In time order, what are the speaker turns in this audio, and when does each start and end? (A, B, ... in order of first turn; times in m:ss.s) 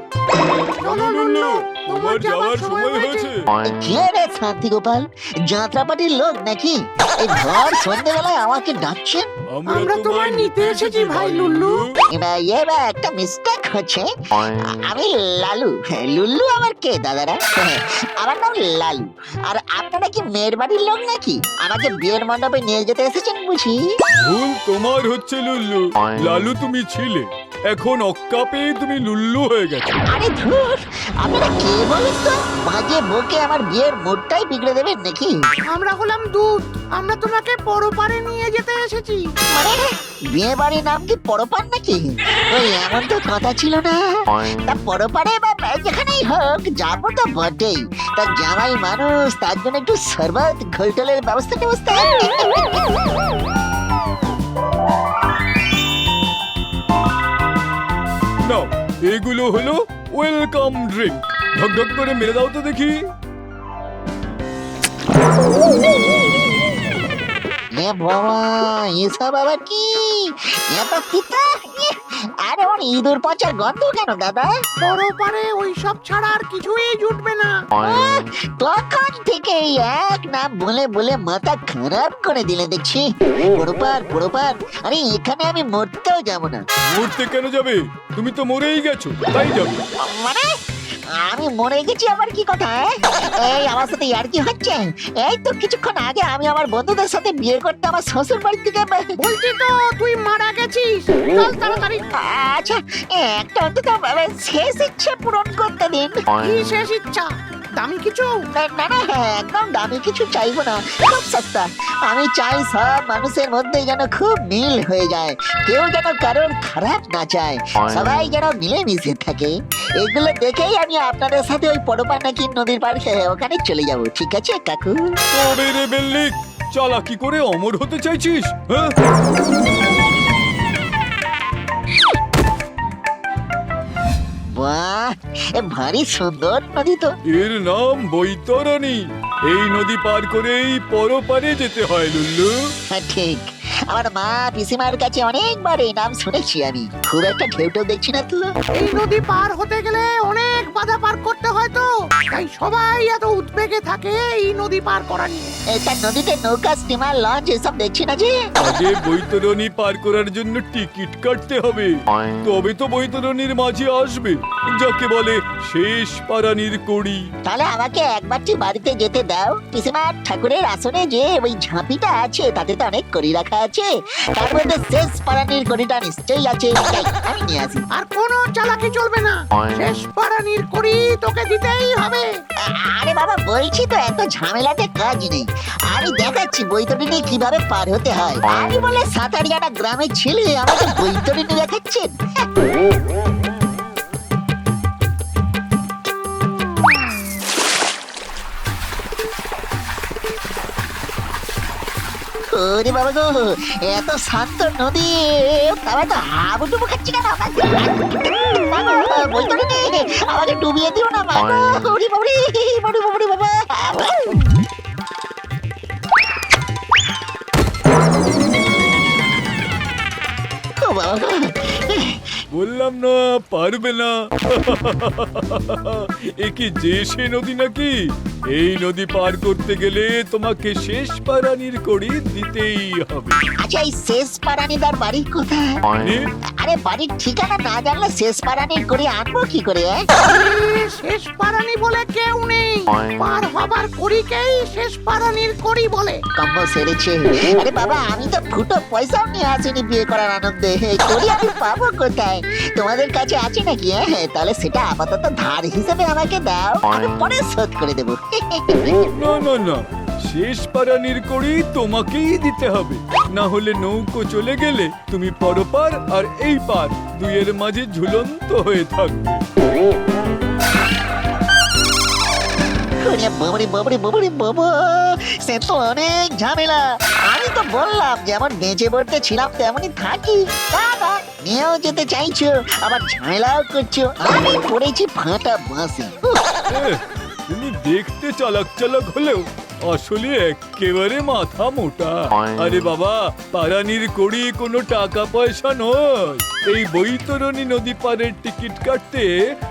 0:00.7-0:03.5 A
0:00.8-0:03.3 B
0:03.6-0:09.3 C
0:09.5-0:12.0 A
0:09.7-0:11.8 B
0:12.1-0:24.0 C
0:24.2-0:30.0 A
0:30.1-0:35.4 C
0:35.7-0:39.3 B
0:39.5-0:52.8 C
0:58.4-1:03.0 A
1:07.7-1:14.5 C
1:14.8-1:17.6 B
1:17.8-1:26.6 C
1:26.9-1:29.8 A
1:30.0-1:30.5 C
1:31.2-1:39.2 C
1:39.2-1:42.0 B
1:42.2-1:46.2 C
1:46.4-1:48.4 B
1:48.5-2:05.2 C
2:05.3-2:08.9 A
2:14.5-2:17.2 C
2:17.3-2:22.5 A
2:22.9-2:28.5 C
2:28.7-2:35.5 B
2:35.7-2:38.3 C
2:38.6-2:47.2 A
2:47.5-2:57.9 C
2:57.9-3:02.4 B
3:02.6-3:12.2 C
3:22.5-3:34.4 C
3:40.8-3:42.4 C
3:42.5-3:47.9 A
3:48.5-3:53.4 A
3:53.6-3:55.8 C
3:56.0-3:56.3 A
3:56.6-4:00.0 C
4:00.2-4:06.2 B
4:06.4-4:18.9 C
4:19.1-4:29.4 A
4:33.0-4:46.4 C
4:46.7-4:47.0 A
4:47.5-4:59.3 A